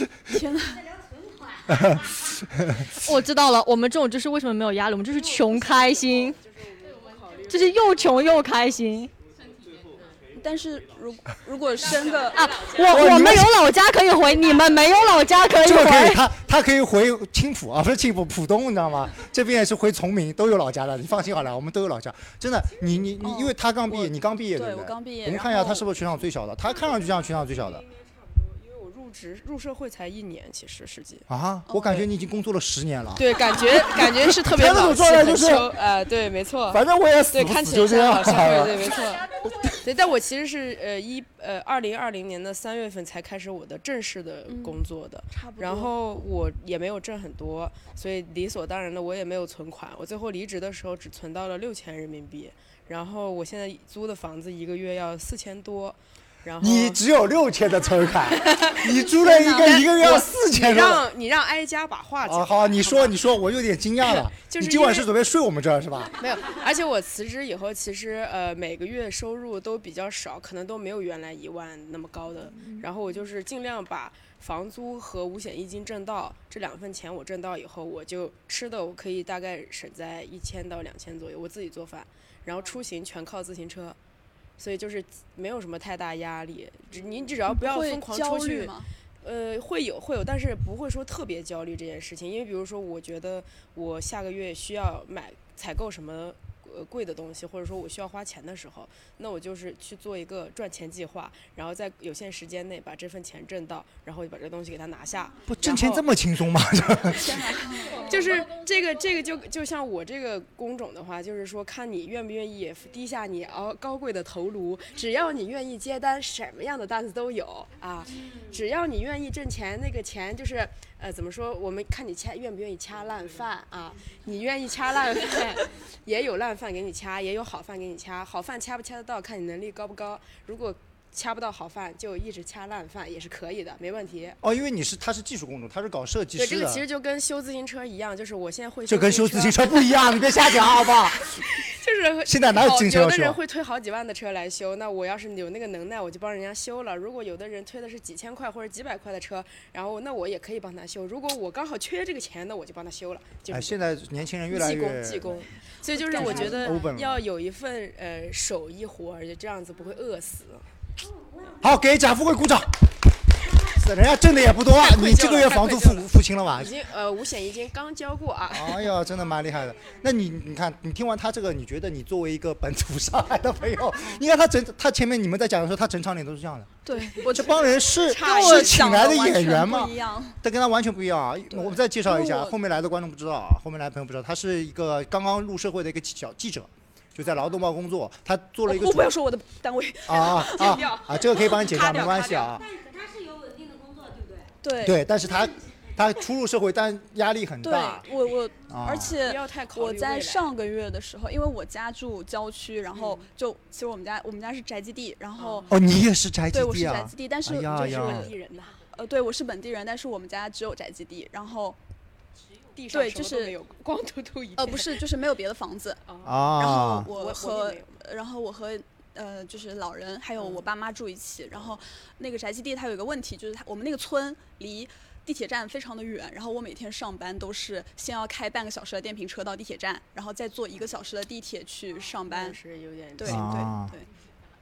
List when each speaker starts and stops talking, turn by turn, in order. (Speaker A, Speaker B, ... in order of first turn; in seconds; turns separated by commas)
Speaker A: 0.3-0.8, Speaker B: 0.8-2.8, Speaker C: 1.7-2.1, Speaker D: 3.0-6.4, Speaker E: 5.0-8.1, Speaker B: 6.8-8.5, Speaker D: 7.5-9.1, Speaker B: 9.2-10.2, Speaker A: 10.3-12.7, Speaker B: 11.8-13.0, Speaker D: 12.3-16.2, Speaker C: 12.8-13.6, Speaker B: 14.2-15.5, Speaker C: 15.6-27.8, Speaker E: 22.8-23.1, Speaker A: 23.2-25.9, Speaker E: 27.1-32.1, Speaker C: 31.3-35.8, Speaker E: 33.1-57.0, Speaker C: 36.7-38.9, Speaker A: 44.5-46.0, Speaker C: 56.6-61.1, Speaker E: 58.3-63.2, Speaker C: 62.2-66.1, Speaker E: 64.0-65.1, Speaker E: 66.2-84.0, Speaker E: 84.6-106.1, Speaker A: 87.5-88.9, Speaker C: 105.5-107.5, Speaker A: 107.1-108.2, Speaker B: 107.6-109.5, Speaker E: 107.9-134.4, Speaker B: 118.1-118.6, Speaker C: 134.4-136.8, Speaker E: 136.3-139.7, Speaker C: 138.9-141.3, Speaker E: 141.6-153.8, Speaker C: 142.2-143.4, Speaker C: 153.5-155.4, Speaker E: 154.5-160.7, Speaker A: 156.1-156.6, Speaker C: 156.1-157.2, Speaker C: 161.6-162.8, Speaker C: 163.5-166.8, Speaker E: 164.8-169.0, Speaker C: 168.5-189.1, Speaker A: 176.8-180.4, Speaker E: 178.0-179.1, Speaker A: 181.5-182.5, Speaker A: 188.7-192.4, Speaker C: 190.1-192.6, Speaker E: 190.6-191.1, Speaker E: 191.8-192.5, Speaker B: 192.6-194.3, Speaker A: 194.6-195.1, Speaker C: 194.8-198.1, Speaker A: 197.6-205.8, Speaker C: 198.7-199.2, Speaker E: 199.1-200.5, Speaker E: 202.9-203.2, Speaker E: 205.4-205.7, Speaker C: 205.7-208.3, Speaker A: 206.5-208.4, Speaker E: 207.6-208.8, Speaker A: 208.9-211.8, Speaker E: 212.8-215.0, Speaker A: 212.9-213.6, Speaker A: 214.6-216.0, Speaker E: 216.0-218.0, Speaker C: 216.2-217.1, Speaker A: 216.6-232.6, Speaker E: 220.4-220.7, Speaker E: 232.2-233.5, Speaker A: 233.2-234.1, Speaker C: 233.2-233.9, Speaker B: 234.0-234.3